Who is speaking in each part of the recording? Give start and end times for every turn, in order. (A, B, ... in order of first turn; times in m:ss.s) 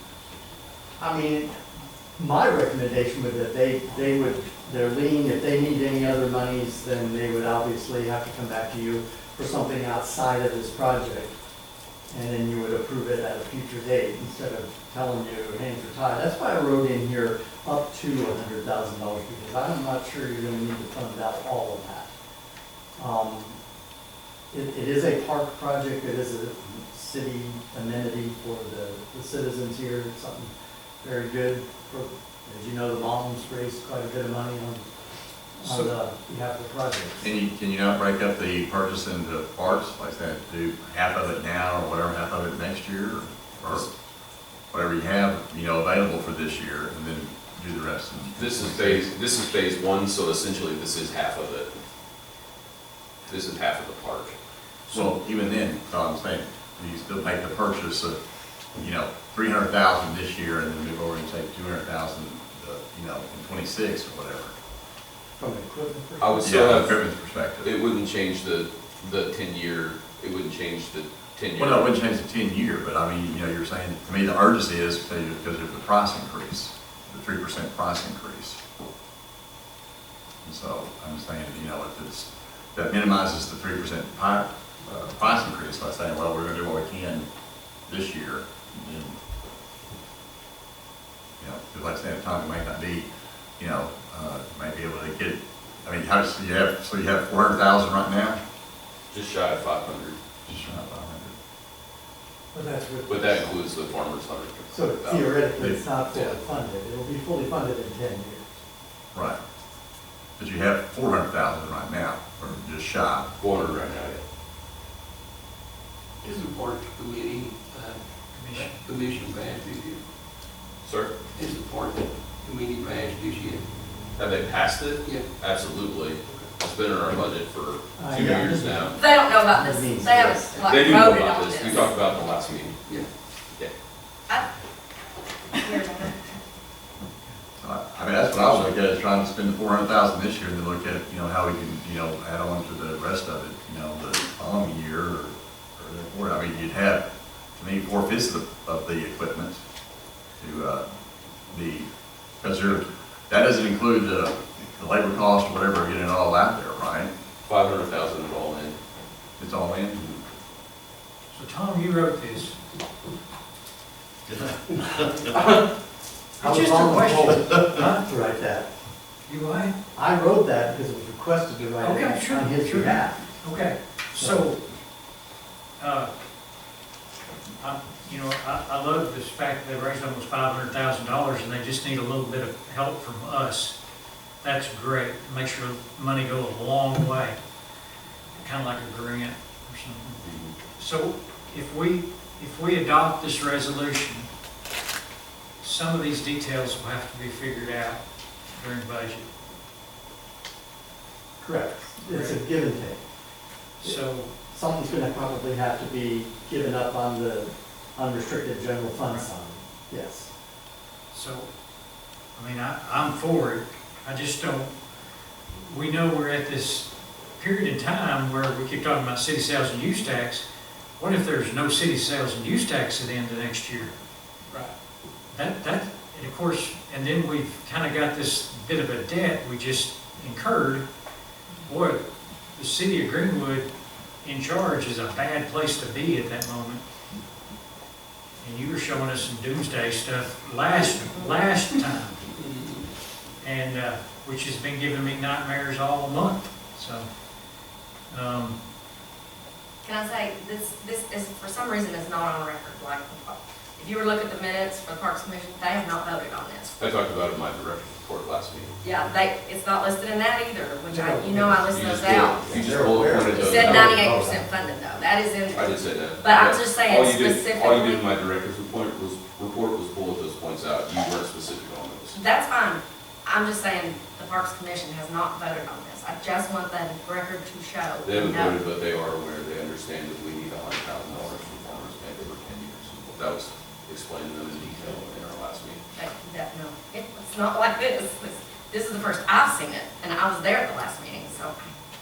0:01.0-0:01.5 A
0:02.2-0:11.3 A
0:12.1-0:22.1 A
0:23.0-0:23.6 A
0:24.5-0:34.8 A
0:35.6-0:37.3 A
0:37.2-0:43.9 B
0:44.7-0:49.0 B
0:48.3-0:51.7 C
0:53.3-0:54.3 C
0:54.9-0:58.2 B
0:58.8-1:04.5 B
1:05.4-1:06.5 A
1:06.2-1:07.0 C
1:06.4-1:07.7 B
1:07.6-1:11.9 C
1:11.6-1:18.6 B
1:20.4-1:27.2 B
1:27.9-1:29.2 B
1:31.4-1:33.1 B
1:33.6-1:38.4 B
1:39.1-1:40.2 C
1:40.5-1:41.3 B
1:42.5-1:43.5 A
1:43.1-1:45.3 C
1:44.7-1:48.6 A
1:50.4-1:53.3 B
1:53.4-1:54.2 C
1:56.2-1:58.0 D
1:58.3-1:58.8 E
1:58.5-2:00.0 D
2:00.8-2:01.1 C
2:01.4-2:03.6 D
2:04.2-2:09.0 C
2:08.0-2:10.6 A
2:09.0-2:11.9 F
2:10.6-2:12.8 C
2:15.6-2:16.2 F
2:17.6-2:27.0 B
2:18.3-2:18.7 C
2:27.6-2:29.6 B
2:30.4-2:30.8 B
2:31.5-2:31.9 B
2:32.4-2:37.1 B
2:37.5-2:38.8 C
2:39.4-2:40.1 B
2:41.3-2:42.6 E
2:46.4-2:48.0 E
2:46.4-2:48.7 A
2:49.3-2:49.8 E
2:49.9-2:53.2 A
2:51.8-2:54.6 E
2:54.1-2:54.4 A
2:55.8-2:56.1 E
2:57.6-3:03.8 E
3:04.4-3:07.4 E
3:08.4-3:10.2 E
3:10.2-3:10.5 C
3:10.8-3:14.3 E
3:15.6-3:18.0 E
3:18.6-3:19.2 E
3:21.4-3:23.0 A
3:22.1-3:22.4 E
3:23.8-3:24.3 E
3:24.5-3:30.3 A
3:31.1-3:31.5 E
3:32.4-3:34.7 E
3:35.7-3:40.4 E
3:41.0-3:43.9 E
3:45.3-3:50.8 E
3:51.7-3:52.0 E
3:52.6-3:53.7 E
3:54.2-3:56.8 E
3:58.4-4:02.2 E
4:02.3-4:02.9 D
4:03.4-4:07.1 E
4:08.1-4:08.6 E
4:09.8-4:16.7 F
4:16.8-4:18.7 C
4:18.8-4:22.4 F
4:20.9-4:21.7 A
4:21.7-4:24.1 C
4:22.4-4:24.5 A
4:23.4-4:28.0 F
4:25.5-4:32.2 C
4:32.1-4:38.6 F
4:38.0-4:45.8 C
4:45.9-4:51.7 F